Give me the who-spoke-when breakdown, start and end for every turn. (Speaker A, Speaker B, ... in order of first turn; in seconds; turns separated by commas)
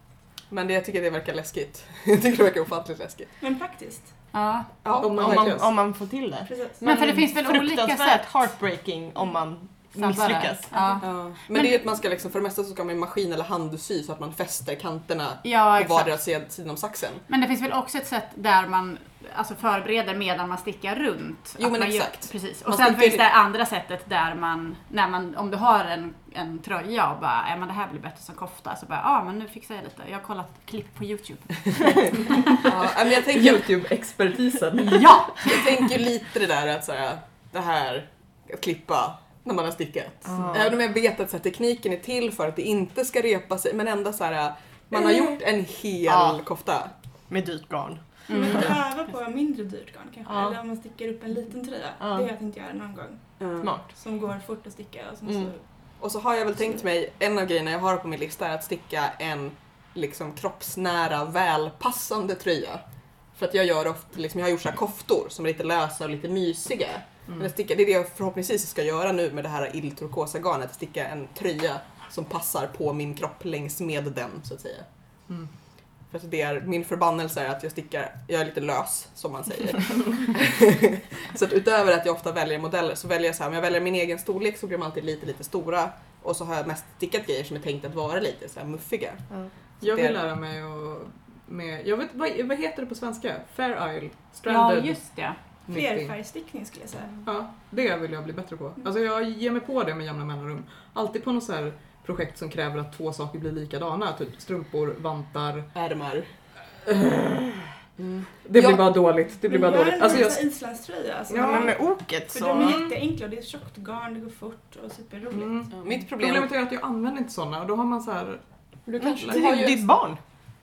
Speaker A: 0.5-3.4, Speaker B: 3.4-4.1, Speaker C: 4.3-4.7, Speaker A: 4.8-5.6, Speaker D: 4.9-5.7, Speaker E: 5.1-10.8, Speaker B: 6.5-6.8, Speaker C: 6.8-8.4, Speaker C: 9.9-11.8, Speaker B: 10.7-11.1, Speaker A: 11.0-17.2, Speaker C: 15.4-16.1, Speaker C: 17.3-32.5, Speaker A: 21.6-23.2, Speaker A: 32.6-33.7, Speaker D: 33.2-35.3, Speaker C: 34.9-35.3, Speaker A: 35.3-46.9, Speaker E: 40.3-40.7, Speaker E: 46.0-46.4, Speaker E: 47.3-48.7, Speaker C: 48.3-48.7, Speaker B: 48.3-55.6, Speaker E: 50.3-50.6, Speaker E: 52.0-52.3, Speaker A: 53.4-53.7, Speaker E: 53.6-53.9, Speaker E: 55.2-55.5, Speaker A: 56.0-62.8, Speaker A: 63.3-74.8, Speaker A: 76.1-89.3, Speaker A: 89.8-90.2, Speaker D: 89.8-95.0, Speaker C: 94.5-95.4, Speaker D: 95.7-96.2, Speaker B: 95.7-97.2, Speaker D: 97.2-105.7, Speaker A: 105.7-106.3, Speaker D: 106.8-107.7, Speaker A: 108.0-108.9, Speaker D: 108.4-110.4, Speaker B: 109.5-115.5, Speaker D: 111.3-111.7, Speaker E: 111.4-112.8, Speaker D: 112.5-113.0, Speaker D: 115.3-118.4, Speaker A: 115.7-116.5, Speaker A: 118.9-119.8, Speaker D: 119.0-119.5, Speaker E: 119.1-120.2